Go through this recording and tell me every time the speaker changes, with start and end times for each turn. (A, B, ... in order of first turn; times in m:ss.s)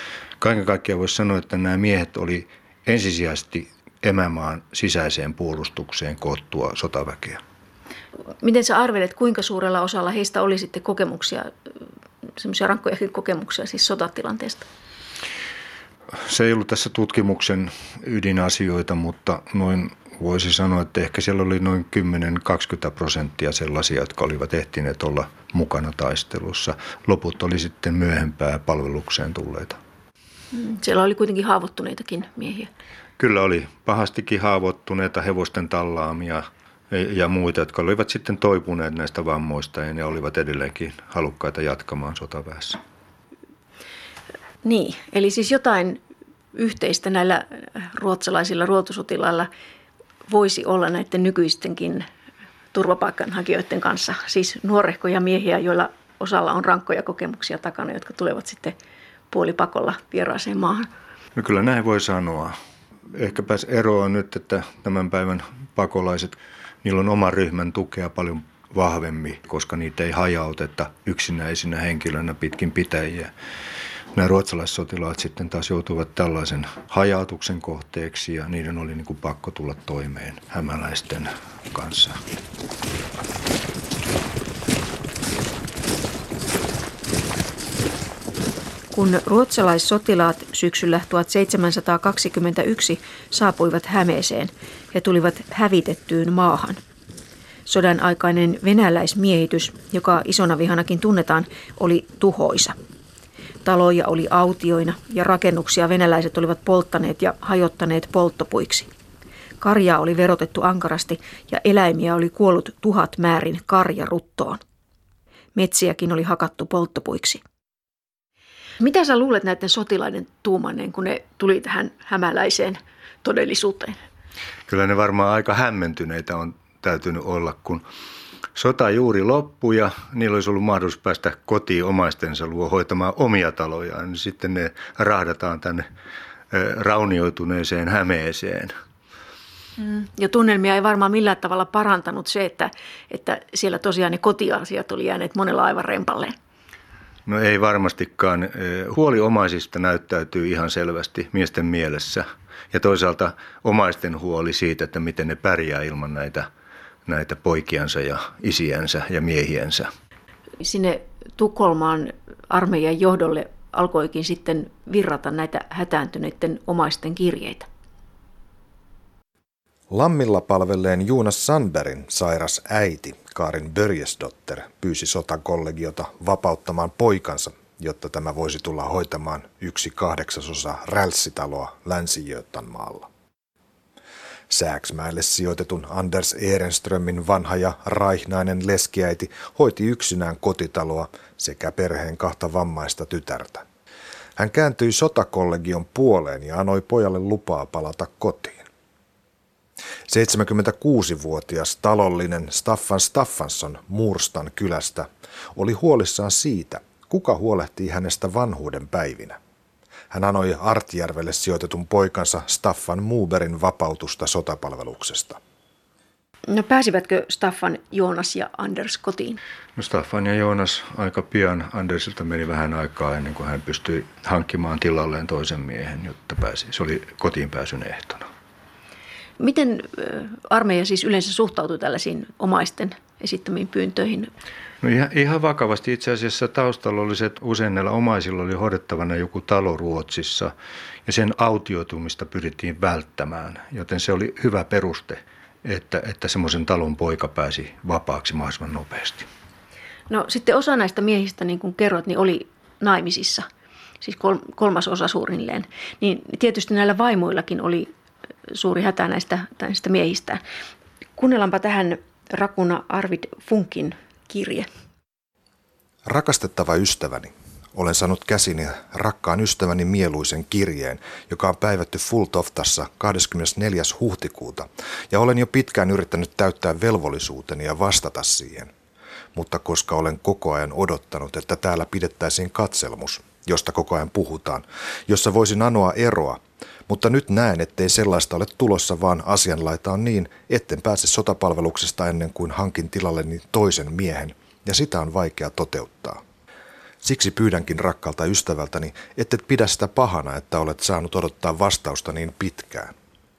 0:00.4-0:07.4 A
0:08.4-0:11.5 B
0:12.4-0:14.7 B
0:16.2-0:29.8 A
0:30.5-0:32.7 B
0:33.2-0:42.8 A
0:44.6-0:46.0 B
0:46.5-0:49.5 B
0:50.3-0:52.1 B
0:52.7-0:58.8 B
0:59.3-1:00.9 B
1:01.4-1:02.6 A
1:03.1-1:13.3 A
1:14.1-1:22.2 A
1:28.9-1:36.8 B
1:37.7-1:42.8 B
1:43.6-1:48.9 B
1:49.6-1:54.6 B
1:55.6-1:57.4 B
1:58.8-2:04.0 B
2:04.7-2:07.8 A
2:08.6-2:15.8 A
2:16.5-2:18.7 A
2:19.8-2:26.4 B
2:27.3-2:36.5 A
2:37.1-2:39.9 A
2:40.6-2:47.7 B
2:49.9-3:03.1 C
3:04.5-3:13.6 C
3:14.4-3:18.6 C
3:20.1-3:29.4 C
3:30.1-3:35.4 C
3:36.5-3:39.4 B
3:39.8-3:48.3 A
3:49.4-3:54.3 B
3:54.8-4:00.5 A
4:01.1-4:09.3 A
4:10.1-4:13.5 B
4:14.0-4:17.9 B
4:18.5-4:20.4 B
4:21.2-4:24.7 B
4:26.1-4:38.7 C
4:39.3-4:56.2 C
4:57.0-5:02.9 C